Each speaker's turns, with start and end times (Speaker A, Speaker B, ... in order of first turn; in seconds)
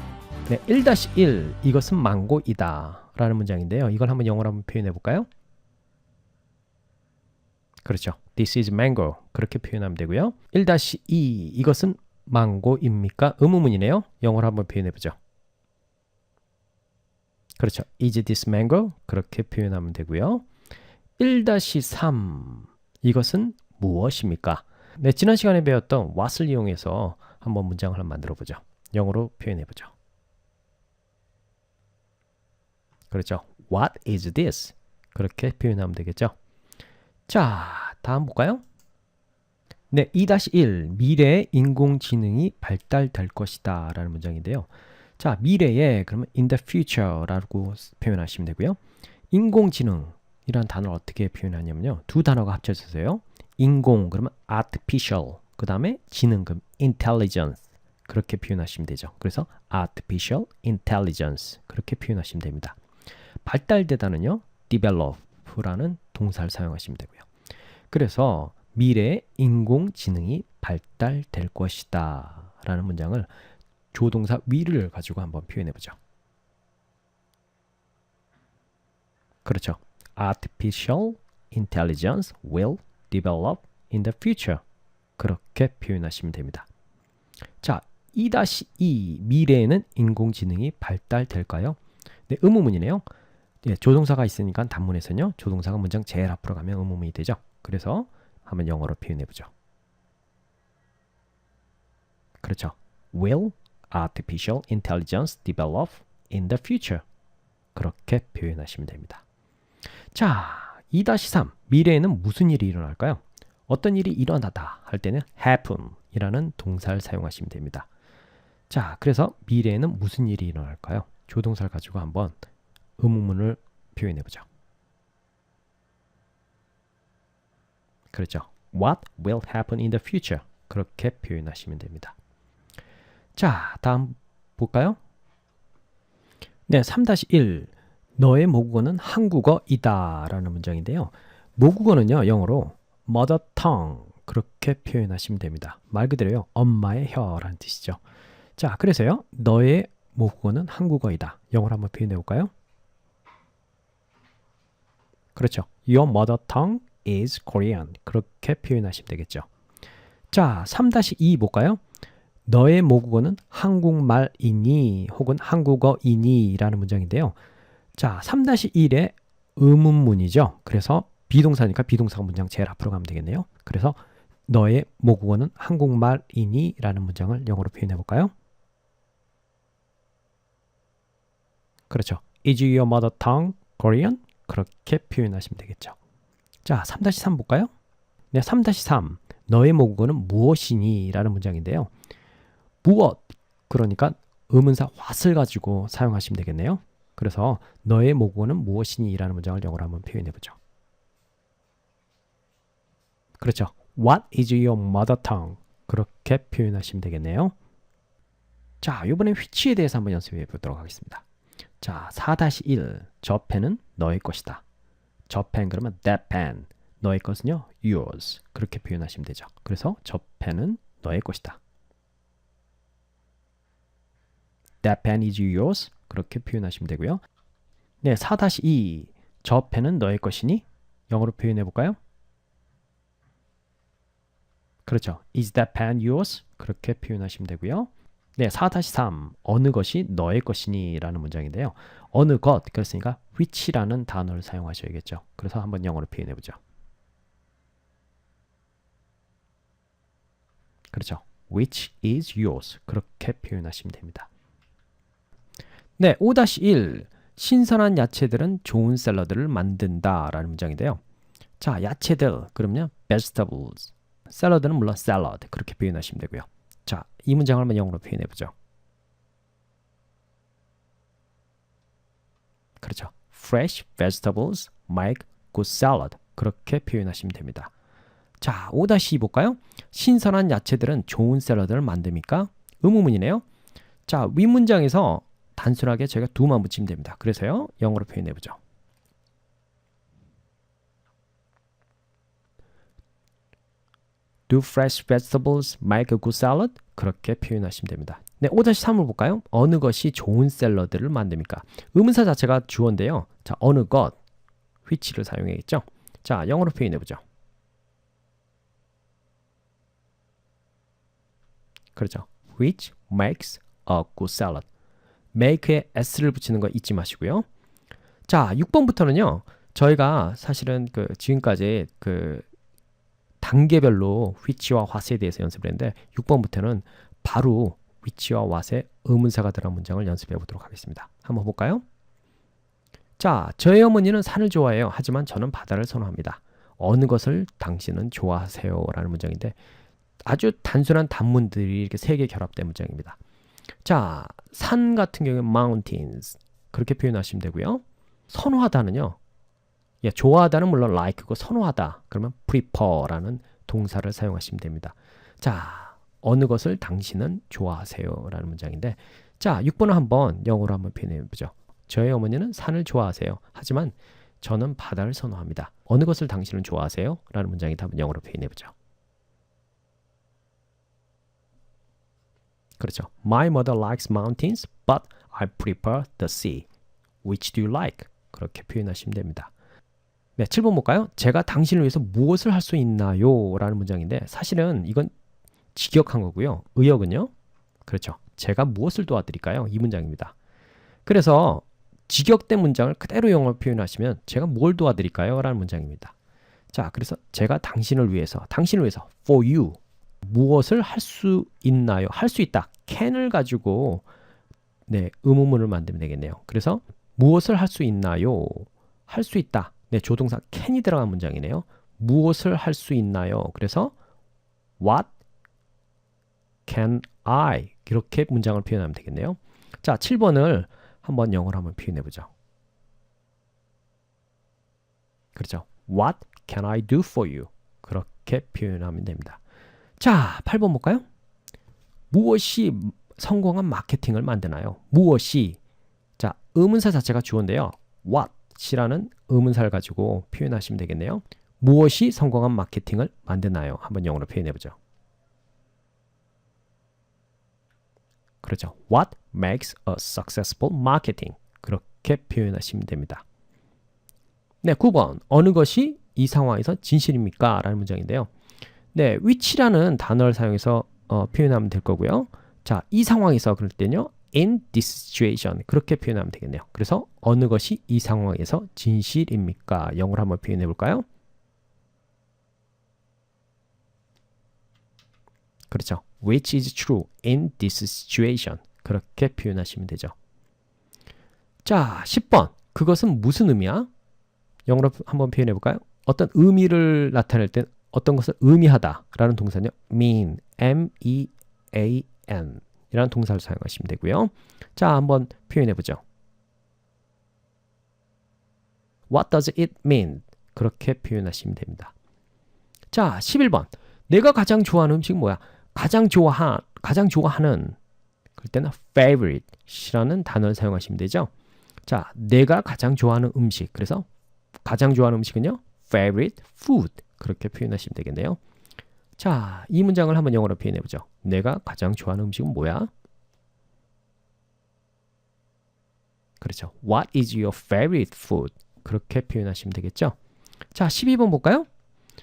Speaker A: 0.5-5.3, 7.8-15.2, 17.6-20.5, 21.2-29.9, 33.1-36.4, 37.3-38.6, 39.9-48.8, 49.3-62.8, 63.5-67.3, 67.9-73.3, 73.9-76.0, 79.5-84.6, 85.2-86.7, 87.6-91.8, 92.3-93.0, 93.6-99.5, 102.4-107.0, 107.8-109.2, 110.1-117.9, 118.7-122.3, 123.0-124.5, 128.1-132.2, 133.4-135.0, 136.7-148.0, 148.6-152.5, 155.3-159.5, 160.3-161.8, 162.5-167.4, 168.0-178.3, 181.9-186.0, 186.7-187.7, 188.3-191.9, 192.8-200.6, 203.4-207.5, 208.8-211.2, 211.8-214.6, 215.3-221.6, 224.8-227.2, 228.0-232.0, 234.9-246.6, 250.9-254.3, 256.0-261.0, 261.6-268.5, 272.8-277.7, 278.4-283.4, 284.1-288.6, 294.5-304.2, 304.9-307.2, 312.0-314.7, 315.3-317.5, 318.3-322.4, 323.4-331.8, 333.2-339.6, 340.2-343.2, 343.8-349.2, 350.0-368.7, 372.8-376.7, 377.2-379.5, 380.4-385.1, 385.7-387.3, 387.9-390.4, 391.1-396.1, 396.7-404.1, 404.9-413.9, 414.8-415.1, 416.7-422.3, 425.3-429.4, 430.0-431.0, 432.1-435.6, 436.2-444.8, 448.4-453.2, 454.6-458.3, 458.9-471.1, 475.7-480.1, 481.6-483.9, 484.7-496.0, 499.1-501.9, 502.9-507.8, 508.4-511.3, 511.9-514.1, 514.6-518.4, 519.2-522.9, 526.4-530.2, 530.7-531.7